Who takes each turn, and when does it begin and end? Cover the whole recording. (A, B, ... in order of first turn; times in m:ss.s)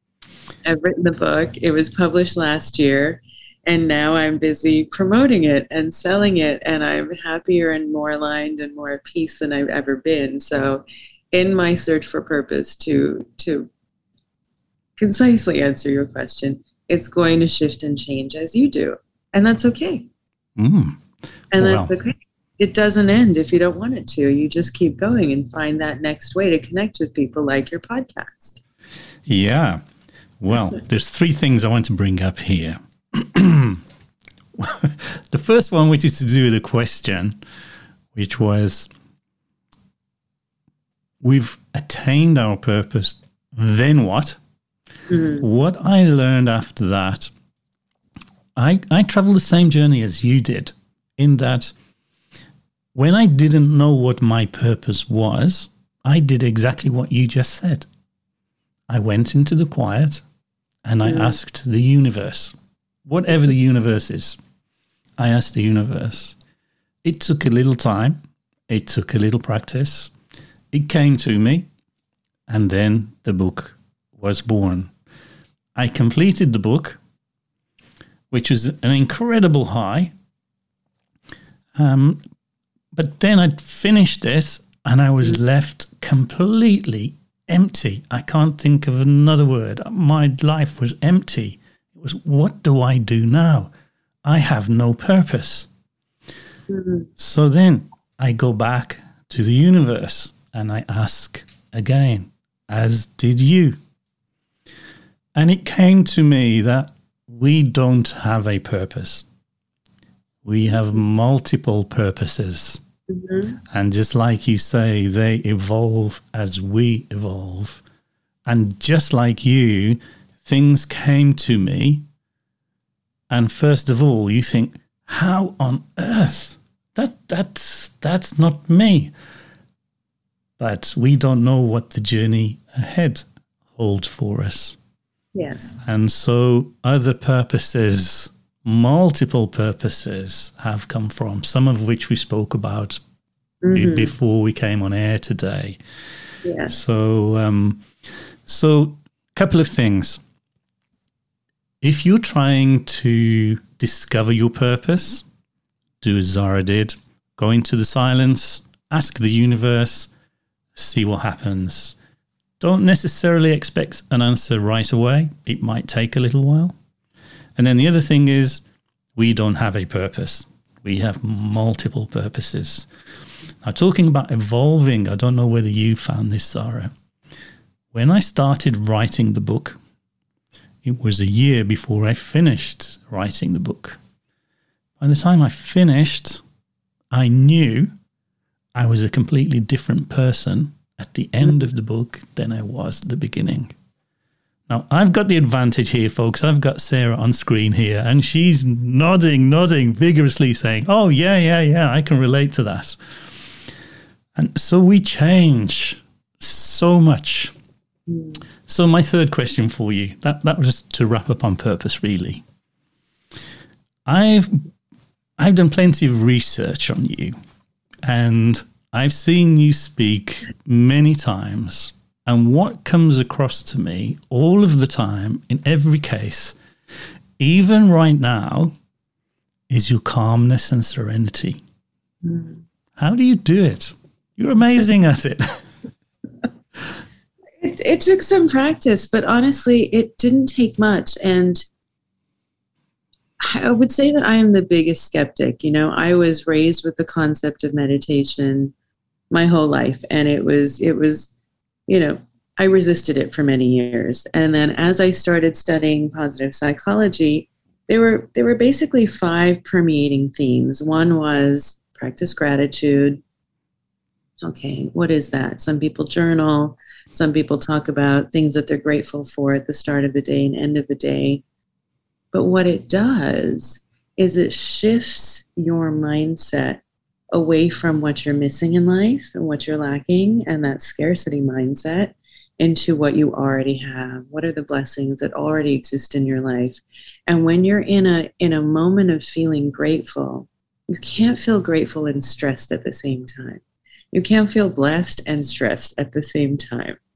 0:00.6-0:13.7 A
0:15.0-0:20.1 A
0:20.6-0:21.0 B
0:21.5-0:28.6 A
0:21.6-0:21.9 B
0:29.3-0:29.8 B
0:30.4-0:33.8 B
0:34.6-0:37.4 B
0:38.2-0:38.9 B
0:41.2-0:44.4 B
0:45.1-0:45.5 A
0:45.4-0:47.3 B
0:48.6-0:51.7 B
0:53.0-0:57.9 B
0:58.9-1:00.2 B
1:00.8-1:02.6 B
1:01.0-1:01.4 A
1:03.1-1:04.4 B
1:05.2-1:06.4 B
1:07.0-1:08.2 B
1:08.7-1:10.1 B
1:10.7-1:11.7 B
1:12.5-1:14.9 B
1:15.8-1:17.0 B
1:18.3-1:20.1 B
1:21.8-1:22.2 B
1:22.9-1:33.7 B
1:34.2-1:35.7 B
1:36.7-1:37.1 A
1:37.2-1:43.8 B
1:45.4-1:49.2 B
1:50.4-1:52.8 B
1:53.1-1:53.6 A
1:53.7-1:57.8 B
1:58.5-2:02.0 B
2:03.3-2:09.1 B
2:10.6-2:14.8 B
2:15.4-2:15.8 A
2:15.8-2:23.0 B
2:23.6-2:24.1 A
2:23.7-2:25.8 B
2:26.4-2:26.7 A
2:26.7-2:27.9 B
2:28.5-2:30.2 B
2:31.8-2:35.2 B
2:36.0-2:40.1 B
2:40.8-2:42.0 B
2:42.6-2:46.8 B
2:47.6-2:48.6 B
2:49.2-2:52.9 B
2:53.6-2:56.9 B
2:57.9-2:59.8 B
3:00.8-3:04.0 B
3:05.0-3:06.4 B
3:07.1-3:07.9 B
3:08.8-3:13.7 B
3:14.7-3:23.0 B
3:24.4-3:27.5 B
3:28.1-3:28.4 A
3:28.7-3:32.4 B
3:34.1-3:34.7 B
3:35.4-3:37.4 B
3:38.0-3:46.6 B
3:47.4-3:48.8 B
3:49.7-3:51.6 B
3:52.2-3:52.6 A
3:53.0-3:55.6 B
3:57.6-4:01.6 A
4:03.4-4:08.7 A
4:09.3-4:11.3 A
4:11.9-4:23.2 A
4:24.4-4:31.4 A
4:32.3-4:36.8 A
4:37.3-4:53.6 A
4:54.1-4:57.0 A